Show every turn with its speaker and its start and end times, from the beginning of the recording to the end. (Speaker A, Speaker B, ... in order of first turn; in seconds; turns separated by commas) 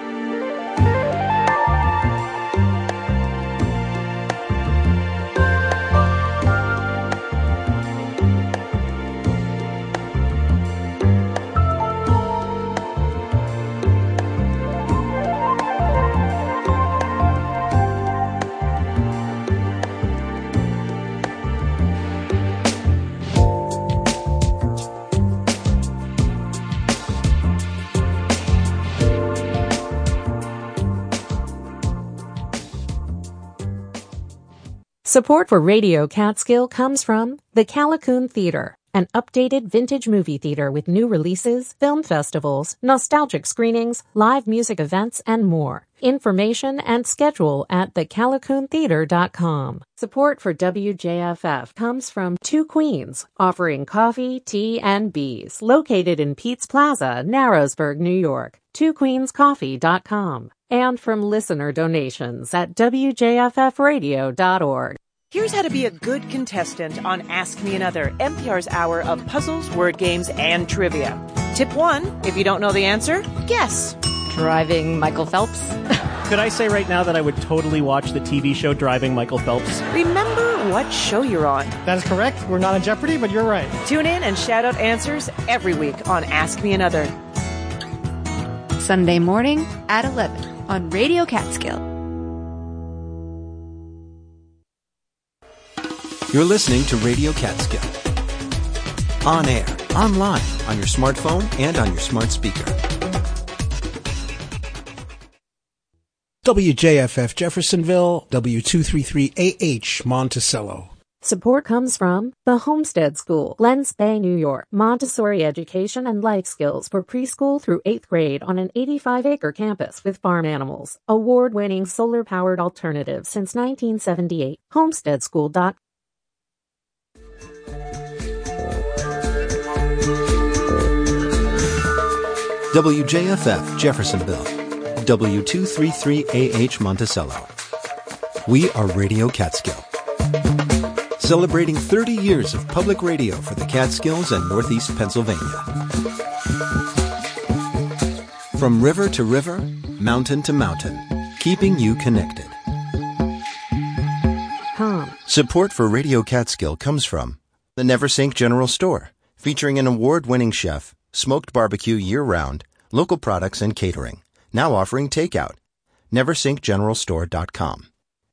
Speaker A: 35.0-65.0, Speaker B: 65.3-75.8, Speaker C: 76.2-79.8, Speaker B: 79.9-81.8, Speaker C: 81.8-83.8, Speaker B: 83.8-87.1, Speaker D: 88.8-91.9, Speaker E: 96.3-98.0, Speaker E: 99.2-102.8, Speaker F: 106.5-110.9, Speaker A: 111.2-125.8, Speaker E: 132.7-137.5, Speaker E: 138.4-139.9, Speaker E: 141.2-145.7, Speaker E: 148.5-152.6, Speaker A: 154.7-155.2, Speaker E: 155.3-165.6, Speaker E: 166.1-167.9